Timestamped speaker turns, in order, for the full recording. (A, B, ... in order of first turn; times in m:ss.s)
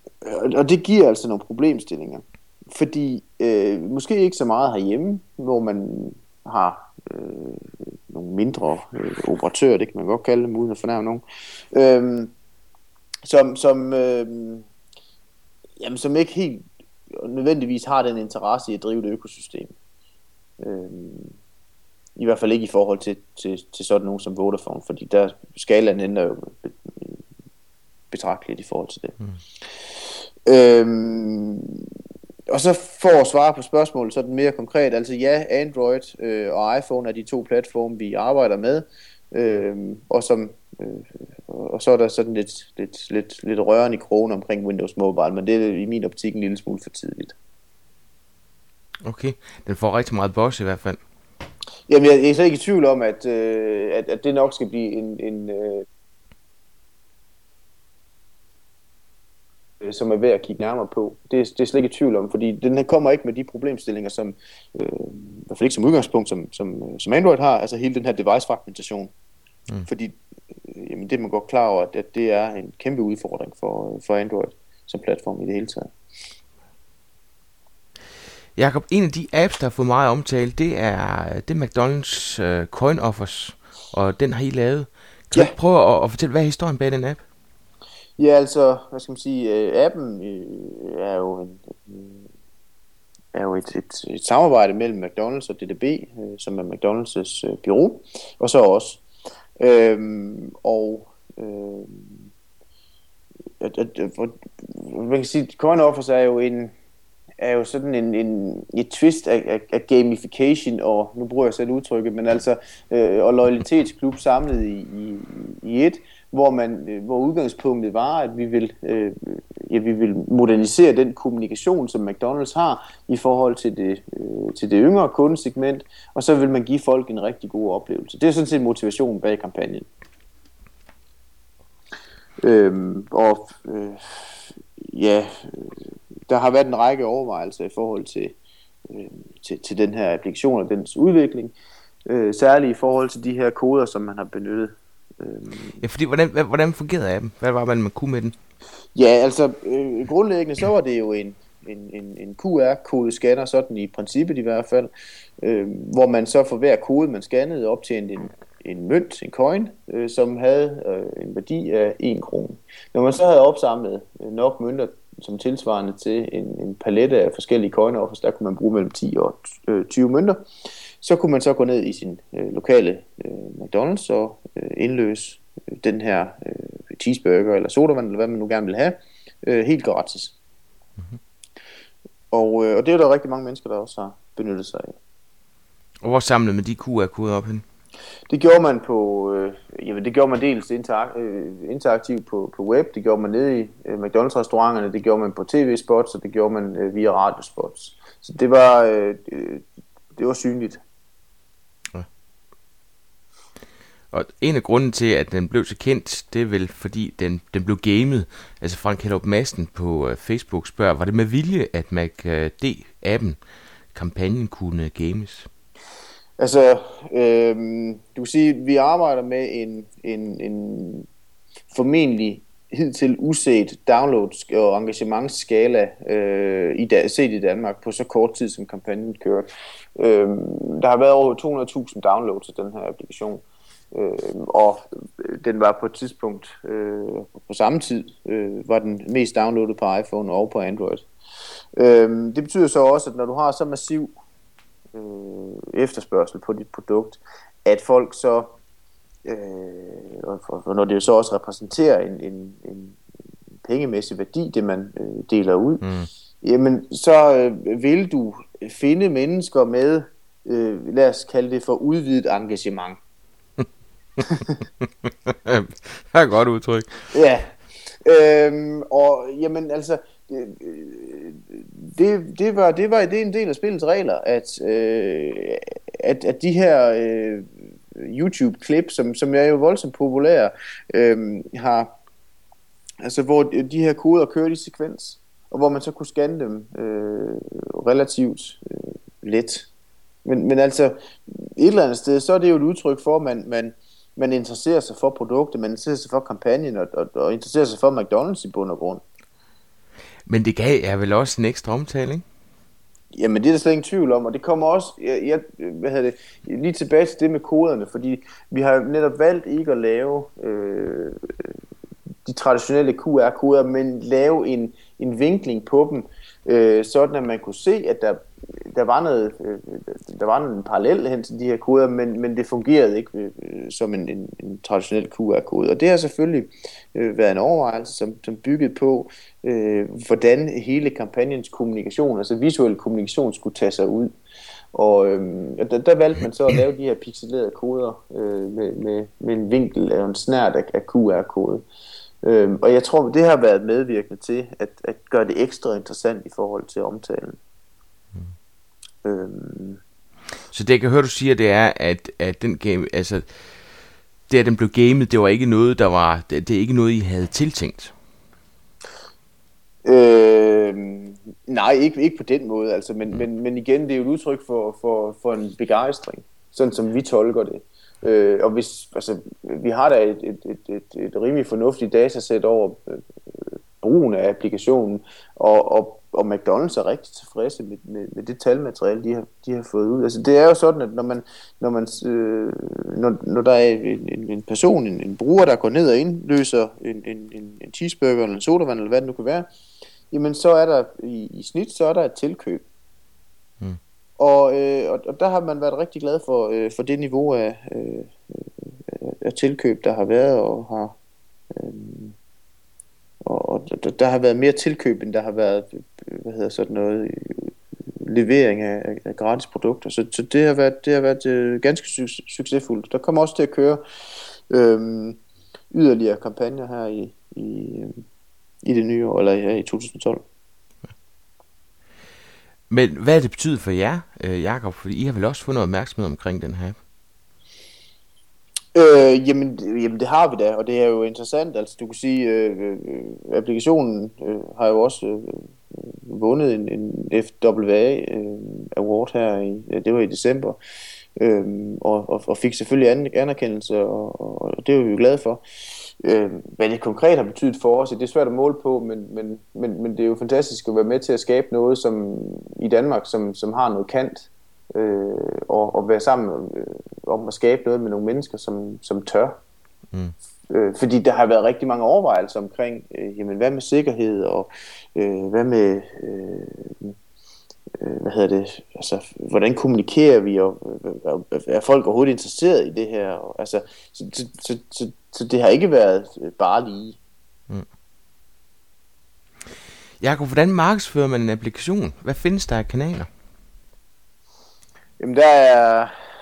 0:00.2-0:12.3 A
0:13.2-0:14.7 A
0:15.8-0:19.7 A
0:20.6-0:21.4 A
0:22.2-0:27.2 A
0:28.1-0:29.2 A
0:29.9-0:31.9 A
0:32.5-0:47.4 A
0:49.0-0:51.0 B
0:51.9-0:55.9 A
0:59.8-1:09.1 A
1:09.9-1:15.9 A
1:18.6-1:27.2 B
1:28.2-1:32.3 A
1:33.3-1:39.0 A
1:39.6-1:42.3 A
1:43.6-1:46.7 A
1:47.4-2:09.9 A
2:12.4-2:18.4 A
2:18.9-2:21.5 A
2:22.0-2:25.8 A
2:25.8-2:28.3 B
2:28.9-2:50.4 A
2:51.0-3:00.3 A
3:02.3-3:05.0 A
3:06.0-3:07.6 B
3:08.3-3:20.8 A
3:24.1-3:33.4 B
3:33.9-3:35.5 B
3:36.4-3:41.1 A
3:41.7-4:01.0 A
4:01.8-4:04.1 A
4:04.9-4:08.5 A
4:09.2-4:13.0 A
4:13.6-4:15.9 A
4:15.8-4:16.1 B
4:16.4-4:23.0 A
4:24.2-4:24.6 A
4:24.8-4:27.1 B
4:27.1-4:41.9 A
4:43.0-4:49.7 A
4:50.2-4:59.0 A
5:00.3-5:02.2 B
5:03.1-5:11.6 A
5:12.2-5:34.2 A
5:34.7-5:41.6 A
5:42.2-5:47.4 A
5:49.0-5:49.8 A
5:50.5-5:53.6 B
5:54.3-5:57.9 B
5:59.8-6:29.5 A
6:30.1-6:32.6 A
6:34.2-6:41.0 A
6:41.5-6:42.2 A
6:43.2-6:53.8 A
6:54.5-6:55.2 A
6:55.7-6:58.0 A
6:58.6-7:00.2 A
7:02.7-7:06.8 B
7:08.7-7:20.6 A
7:21.2-7:39.4 A
7:40.5-7:47.0 A
7:47.7-7:57.0 A
8:00.0-8:03.1 B
8:05.0-8:05.9 A